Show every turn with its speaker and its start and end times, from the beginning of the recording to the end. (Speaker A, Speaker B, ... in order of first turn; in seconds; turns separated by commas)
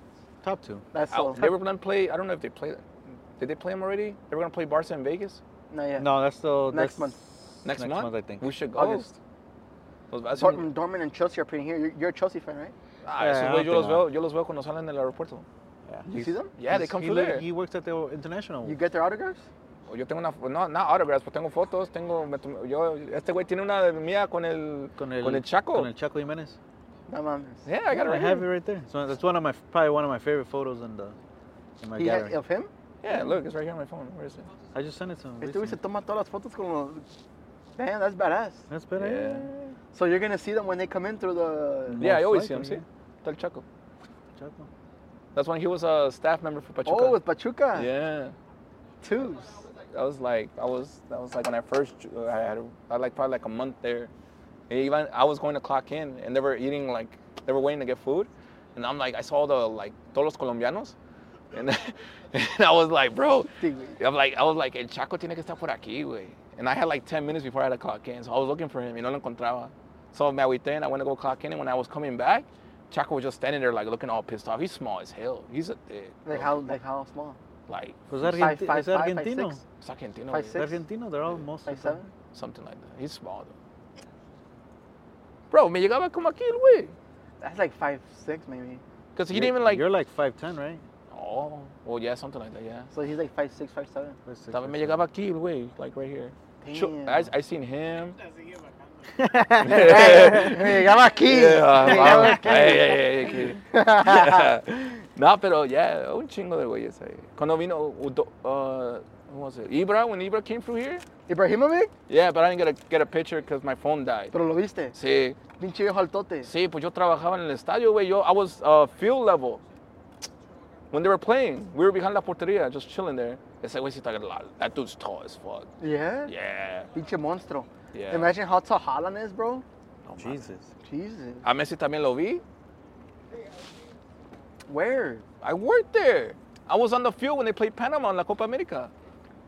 Speaker A: 0.4-0.8, Speaker B: 0.9-1.5, Speaker C: 1.1-2.9, Speaker C: 3.4-5.4, Speaker B: 5.7-6.1, Speaker A: 6.0-8.6, Speaker B: 6.7-7.2, Speaker C: 7.6-9.1, Speaker B: 8.8-9.1, Speaker C: 10.1-10.6, Speaker B: 10.3-12.7, Speaker C: 13.0-15.5, Speaker A: 13.2-14.1, Speaker A: 15.9-18.8, Speaker B: 16.1-16.5, Speaker C: 16.6-17.4, Speaker B: 18.6-19.4, Speaker C: 19.9-25.9, Speaker A: 25.0-26.6, Speaker B: 27.1-27.6, Speaker C: 27.6-28.5, Speaker A: 27.9-31.1, Speaker A: 31.8-32.4, Speaker B: 32.0-32.7, Speaker C: 33.0-34.5, Speaker A: 34.7-35.8, Speaker B: 35.4-37.0, Speaker B: 37.8-38.6, Speaker A: 38.7-39.7, Speaker C: 39.0-39.5, Speaker B: 39.9-42.1, Speaker A: 41.9-42.8, Speaker C: 42.0-43.6, Speaker A: 44.4-44.7, Speaker C: 45.3-47.2, Speaker B: 46.8-47.9, Speaker C: 47.7-48.3, Speaker B: 49.0-49.6, Speaker C: 49.8-54.1, Speaker C: 54.7-60.9, Speaker C: 61.5-76.6, Speaker B: 63.6-64.0, Speaker B: 76.2-77.4, Speaker C: 77.7-78.4, Speaker A: 78.1-79.6, Speaker B: 78.4-79.6, Speaker C: 79.8-80.6, Speaker B: 80.3-80.8, Speaker A: 80.5-82.0, Speaker B: 81.7-82.1, Speaker C: 82.3-83.5, Speaker C: 85.5-86.9, Speaker B: 87.4-88.8, Speaker C: 89.1-89.8, Speaker A: 89.3-90.8, Speaker C: 91.1-92.9, Speaker B: 92.9-94.2, Speaker A: 94.3-95.0, Speaker C: 94.5-98.2, Speaker B: 96.6-97.3, Speaker A: 99.1-100.5, Speaker C: 99.6-111.0, Speaker B: 99.7-104.5, Speaker A: 101.8-102.5, Speaker B: 111.3-111.9, Speaker C: 112.1-114.3, Speaker B: 114.3-115.0, Speaker C: 114.9-115.4, Speaker B: 115.5-116.5, Speaker C: 116.4-119.6, Speaker C: 120.9-125.7, Speaker B: 125.8-126.3, Speaker C: 126.3-126.9, Speaker B: 126.9-129.6, Speaker C: 127.9-128.3, Speaker C: 130.1-130.5, Speaker A: 130.2-130.7, Speaker B: 130.8-131.4, Speaker C: 131.4-132.4, Speaker B: 134.7-135.2, Speaker C: 135.4-138.9